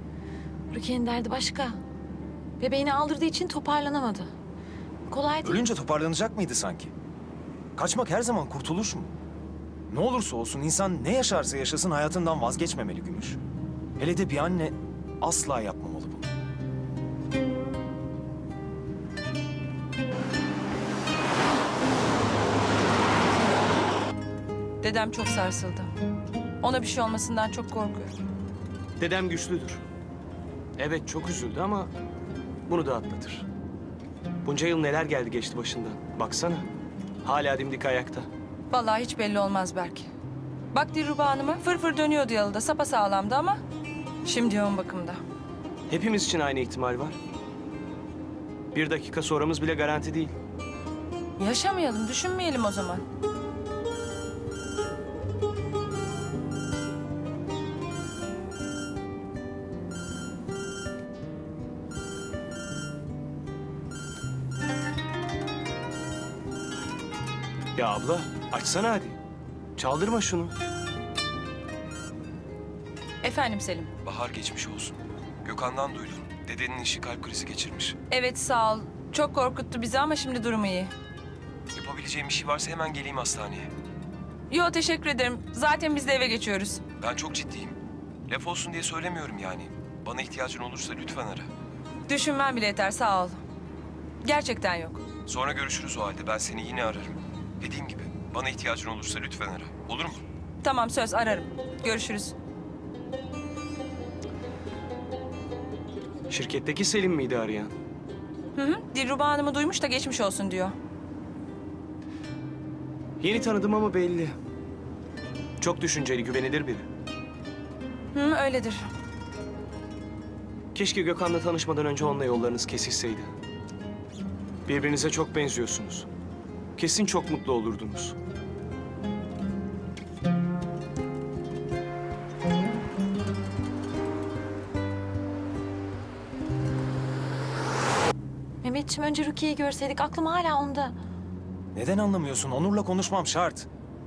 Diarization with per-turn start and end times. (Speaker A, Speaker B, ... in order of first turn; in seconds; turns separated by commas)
Speaker A: 0.7-1.8, Speaker A: 2.6-4.3, Speaker A: 5.1-5.7, Speaker B: 5.4-6.9, Speaker B: 7.8-9.1, Speaker B: 9.9-13.4, Speaker B: 14.0-16.3, Speaker C: 24.8-25.9, Speaker C: 26.6-28.2, Speaker D: 29.0-29.8, Speaker D: 30.8-31.9, Speaker D: 32.7-33.5, Speaker D: 34.4-36.7, Speaker D: 37.2-38.3, Speaker C: 38.7-40.1, Speaker C: 40.7-43.6, Speaker C: 44.2-45.2, Speaker D: 45.9-47.2, Speaker D: 48.7-50.4, Speaker C: 51.4-53.0, Speaker D: 67.8-69.2, Speaker D: 69.8-70.5, Speaker C: 73.2-73.9, Speaker E: 74.0-78.0, Speaker C: 78.1-80.9, Speaker E: 81.8-83.7, Speaker C: 84.5-86.9, Speaker E: 87.0-87.8, Speaker E: 88.3-91.5, Speaker C: 92.1-93.4, Speaker C: 94.2-95.1, Speaker E: 95.3-100.2, Speaker C: 100.6-102.3, Speaker D: 106.3-107.7, Speaker C: 108.5-110.8, Speaker D: 113.2-114.4, Speaker D: 115.6-116.9, Speaker C: 118.1-118.9, Speaker D: 120.8-123.3, Speaker D: 124.7-126.1, Speaker D: 126.8-128.2, Speaker A: 138.6-141.0, Speaker B: 141.7-143.7